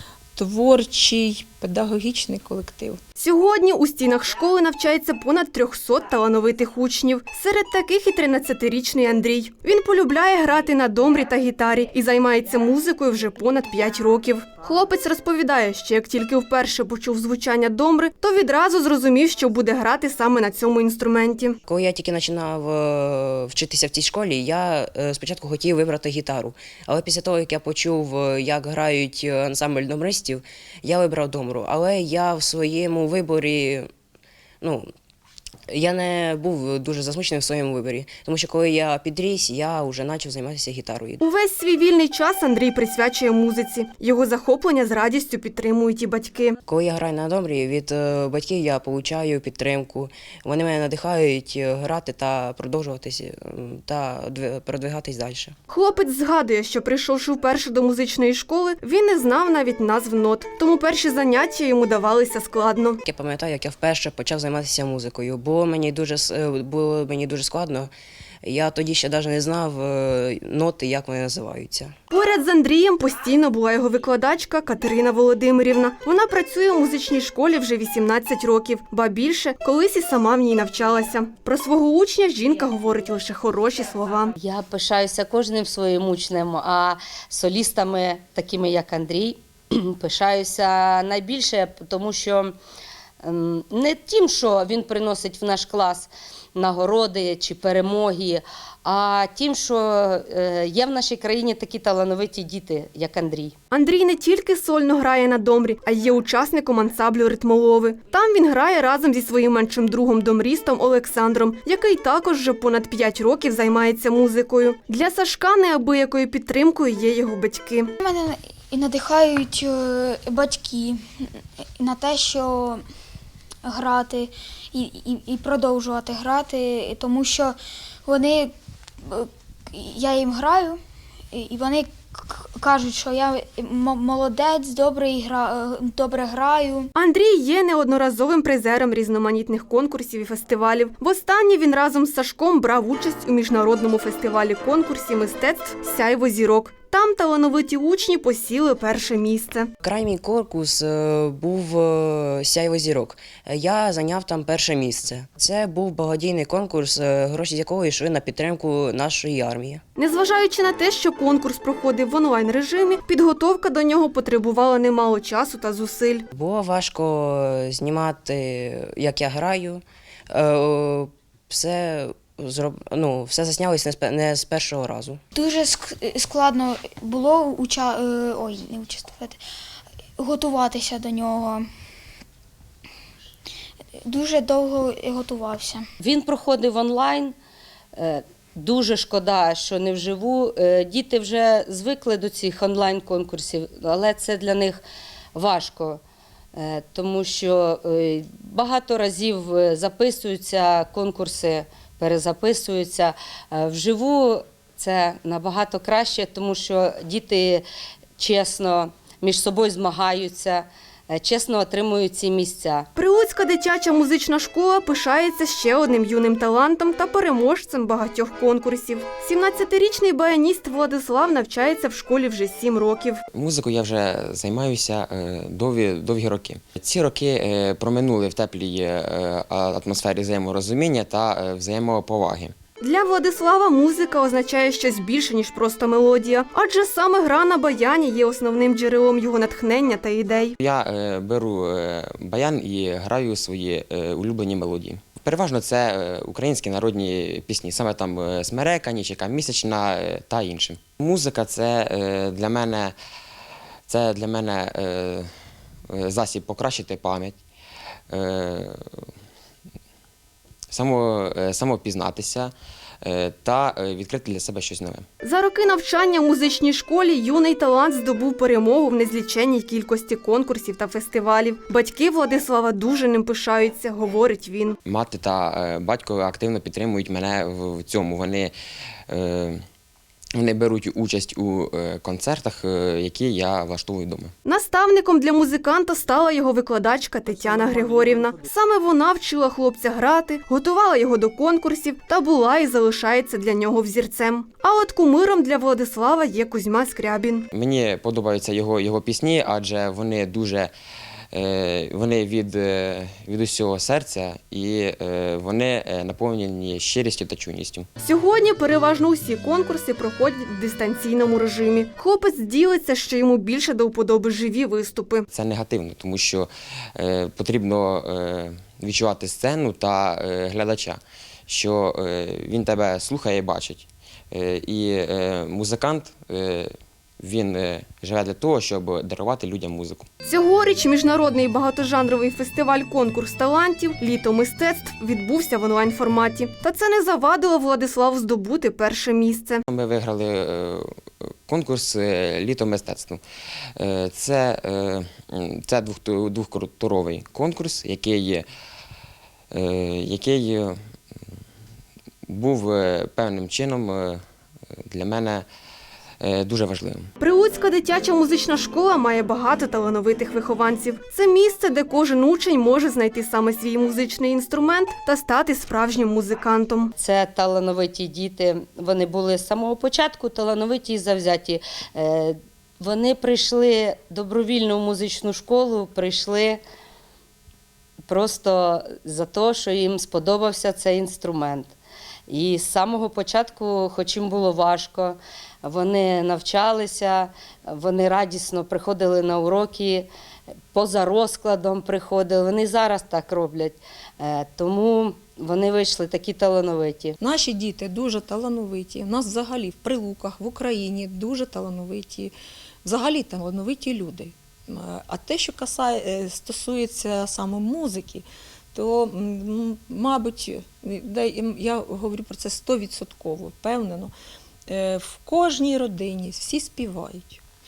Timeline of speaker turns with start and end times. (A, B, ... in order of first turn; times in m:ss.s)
0:00.4-0:03.0 A
0:03.2-0:21.6 B
0:21.7-0:33.9 C
0:34.6-0:34.9 C
0:35.7-0:41.2 C
0:41.2-0:46.6 B
0:46.7-0:55.5 C
0:55.7-1:03.0 B
1:03.0-1:07.9 C
1:08.4-1:11.9 C
1:12.1-1:24.4 B
1:24.4-1:32.5 D
1:33.2-1:43.5 D
1:43.7-1:57.9 B
1:58.0-2:01.2 E
2:01.8-2:02.8 E
2:03.6-2:08.5 E
2:09.1-2:10.8 E
2:11.3-2:16.9 E
2:17.0-2:29.7 B
2:29.8-2:39.8 C
2:40.0-2:46.3 B
2:46.3-2:55.2 C
2:55.3-2:59.4 E
3:00.2-3:01.6 E
3:04.0-3:05.8 E
3:06.0-3:07.3 D
3:08.0-3:14.8 D
3:15.3-3:16.0 D
3:16.5-3:27.6 D
3:28.2-3:32.9 D
3:32.9-3:43.2 B
3:43.3-3:52.5 F
3:52.8-4:00.6 B
4:00.6-4:12.9 F
4:13.9-4:15.3 F
4:15.9-4:17.4 F
4:18.1-4:19.0 F
4:20.7-4:25.0 F
4:25.2-4:34.8 B
4:34.8-4:38.5 F
4:39.1-4:39.6 F
4:40.3-4:44.3 F
4:44.4-4:57.5 B
4:57.5-5:00.7 F
5:01.3-5:07.9 F
5:08.0-5:15.2 B
5:15.3-5:30.1 F
5:30.2-5:39.6 B
5:39.7-5:43.2 F
5:43.8-5:48.4 F
5:49.5-5:50.8 F
5:52.3-5:54.2 F
5:54.7-5:55.4 F
5:56.2-5:57.1 F
5:57.2-6:06.9 B
6:07.0-6:16.6 D
6:18.1-6:21.7 D
6:22.3-6:30.1 D
6:30.7-6:37.2 D
6:37.2-6:42.3 A
6:42.8-6:54.1 A
6:54.7-6:57.4 A